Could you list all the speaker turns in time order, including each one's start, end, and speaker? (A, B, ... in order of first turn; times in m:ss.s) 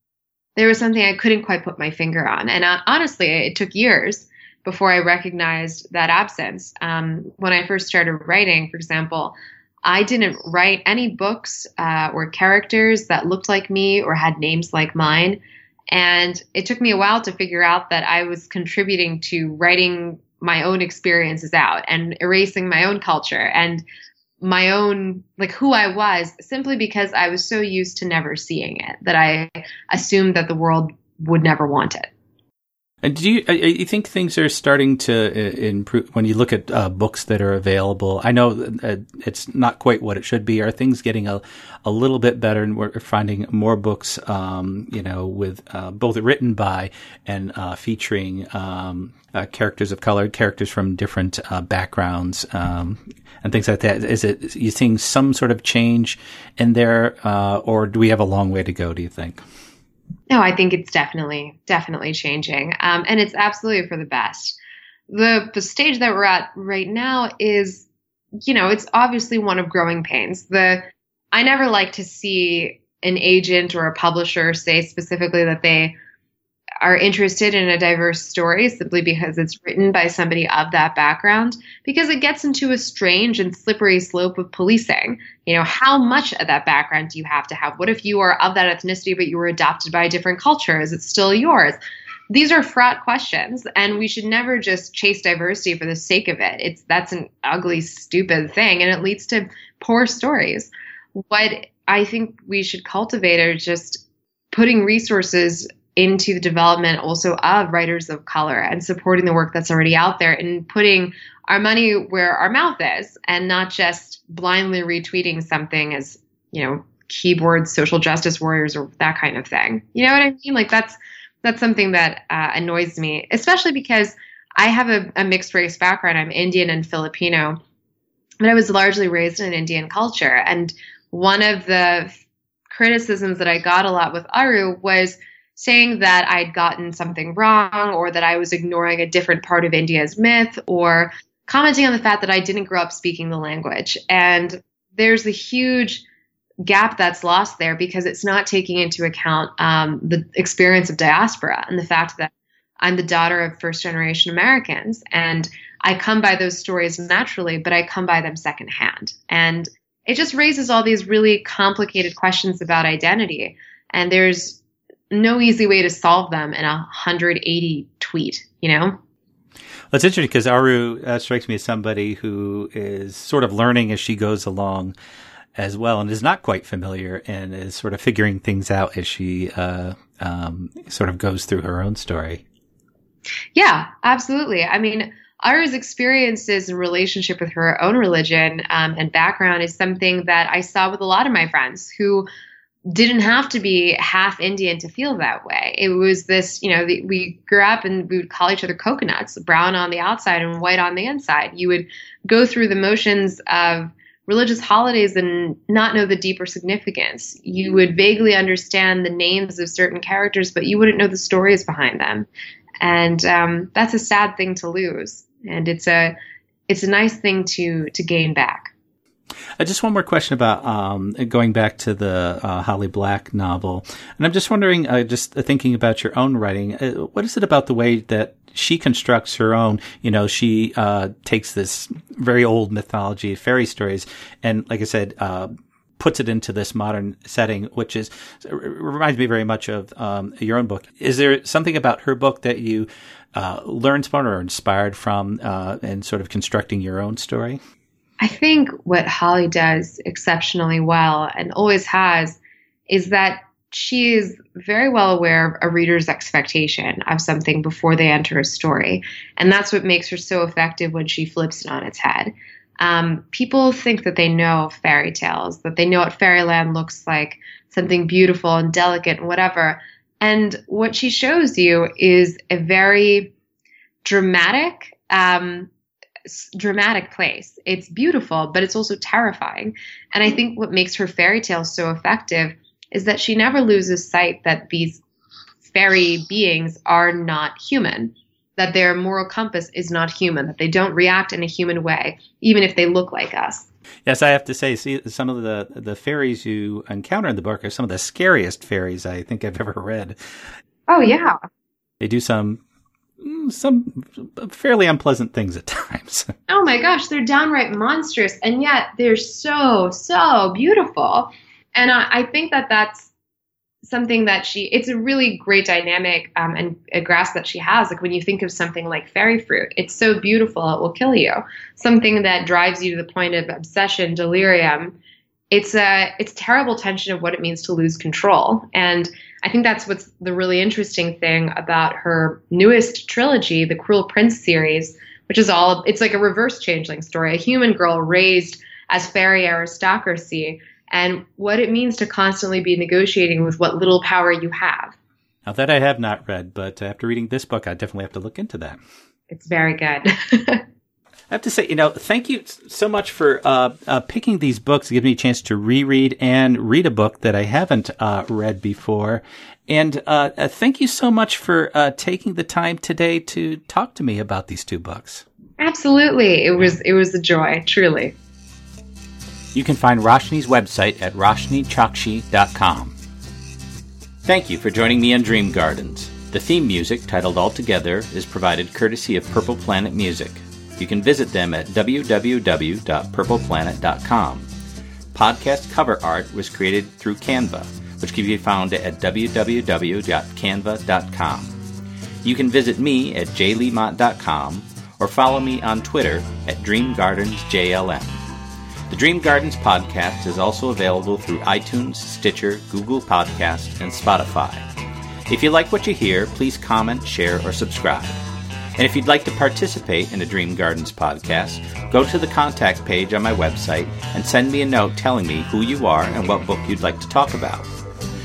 0:00.6-0:23.8 A
0:24.4-0:32.1 A
0:33.0-0:59.4 B
1:00.3-1:04.6 A
1:05.1-1:07.8 A
1:08.4-1:15.9 A
1:16.8-1:31.8 A
1:32.3-2:07.6 A
2:08.4-2:12.2 A
2:12.7-2:26.0 A
2:26.6-2:32.3 A
2:32.8-2:44.6 A
2:45.1-2:49.0 A
2:49.9-2:54.9 B
2:55.6-3:02.4 B
3:03.6-3:12.3 A
3:12.9-3:32.3 A
3:32.8-3:36.1 A
3:36.7-3:38.7 A
3:39.6-4:07.6 B
4:08.2-4:33.3 A
4:34.0-4:35.7 A
4:36.2-4:45.0 A
4:45.6-4:53.7 A
4:54.0-5:00.2 B
5:00.9-5:01.4 A
5:02.0-5:02.6 B
5:03.2-5:06.3 B
5:06.5-5:13.1 A
5:13.8-5:25.0 A
5:25.5-5:44.9 A
5:45.4-5:48.8 B
5:49.3-5:50.6 A
5:51.3-6:05.2 B
6:05.6-6:08.1 A
6:09.5-6:13.0 B
6:14.2-6:24.5 B
6:25.1-6:31.6 B
6:32.2-6:38.2 B
6:38.9-6:44.6 B
6:45.3-6:48.2 B
6:48.8-6:57.7 B